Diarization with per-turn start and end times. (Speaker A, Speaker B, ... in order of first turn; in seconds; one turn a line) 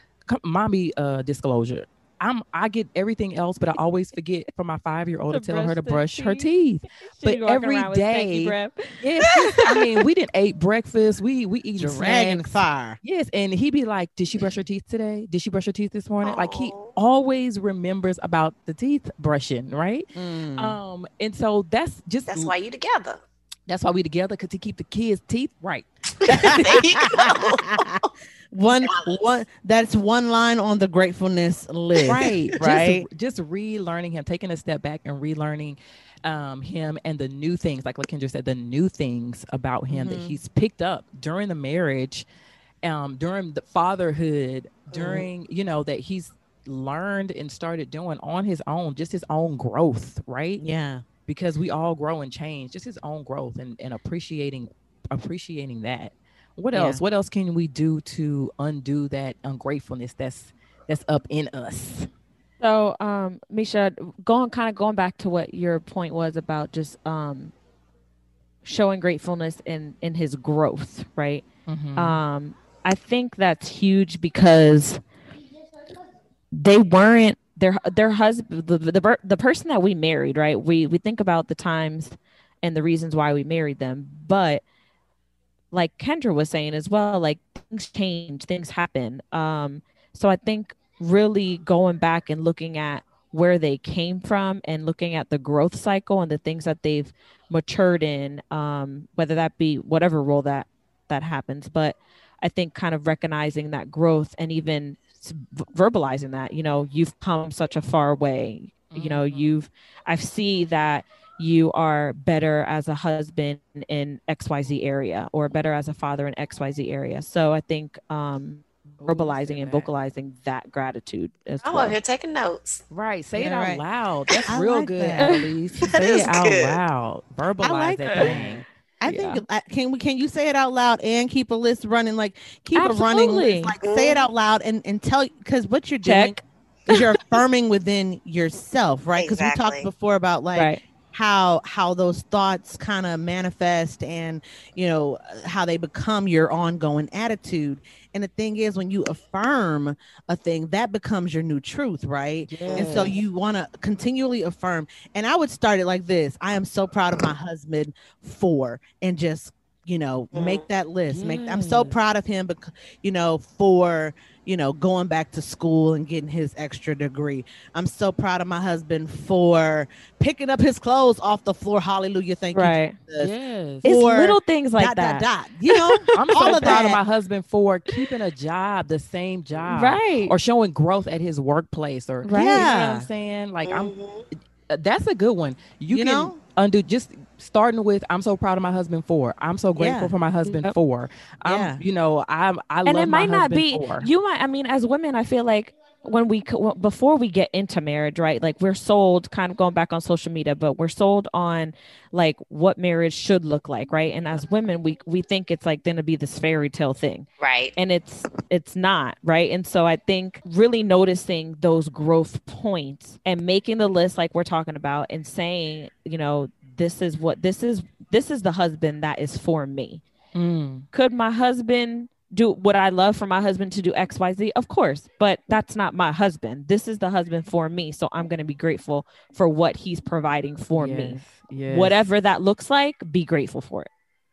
Speaker A: 0.2-22.5
Speaker B: 5.3-6.5
Speaker B: 7.2-9.8
Speaker C: 11.8-13.0
Speaker D: 16.2-16.9
Speaker C: 20.1-20.8
Speaker D: 22.3-23.2
Speaker A: 23.7-26.8
Speaker D: 26.2-28.1
Speaker C: 26.3-33.0
Speaker D: 28.8-29.3
Speaker A: 32.0-42.2
Speaker C: 39.9-40.4
Speaker A: 42.8-50.6
Speaker D: 44.9-45.2
Speaker C: 50.6-51.0
Speaker A: 51.3-62.1
Speaker C: 56.7-57.0
Speaker B: 62.6-67.5
Speaker B: 68.6-71.4
Speaker A: 71.7-72.2
Speaker B: 72.0-75.0
Speaker B: 76.5-84.6
Speaker B: 85.7-122.0
Speaker A: 108.9-109.5
Speaker A: 119.0-119.9
Speaker D: 121.6-122.8
Speaker A: 122.9-128.6
Speaker C: 123.3-123.8
Speaker C: 124.5-125.4
Speaker D: 125.9-126.8
Speaker C: 127.6-173.3
Speaker B: 129.0-129.4
Speaker B: 132.7-133.7
Speaker D: 133.8-134.2
Speaker B: 136.0-137.0
Speaker D: 139.2-139.9
Speaker A: 152.5-153.1
Speaker D: 152.6-153.2
Speaker D: 160.3-160.6
Speaker A: 161.1-161.9
Speaker B: 172.5-172.9
Speaker A: 173.2-173.8
Speaker C: 173.8-177.0
Speaker B: 173.8-176.8
Speaker A: 176.1-183.9
Speaker B: 179.7-180.3
Speaker B: 182.2-182.7
Speaker C: 182.3-183.1
Speaker D: 183.7-184.2
Speaker A: 184.7-194.1
Speaker C: 185.9-186.4
Speaker C: 189.8-190.1
Speaker B: 190.4-190.7
Speaker C: 191.4-191.8
Speaker B: 192.8-220.0
Speaker D: 207.4-207.7
Speaker A: 220.3-220.8
Speaker B: 220.9-233.9
Speaker A: 230.7-232.0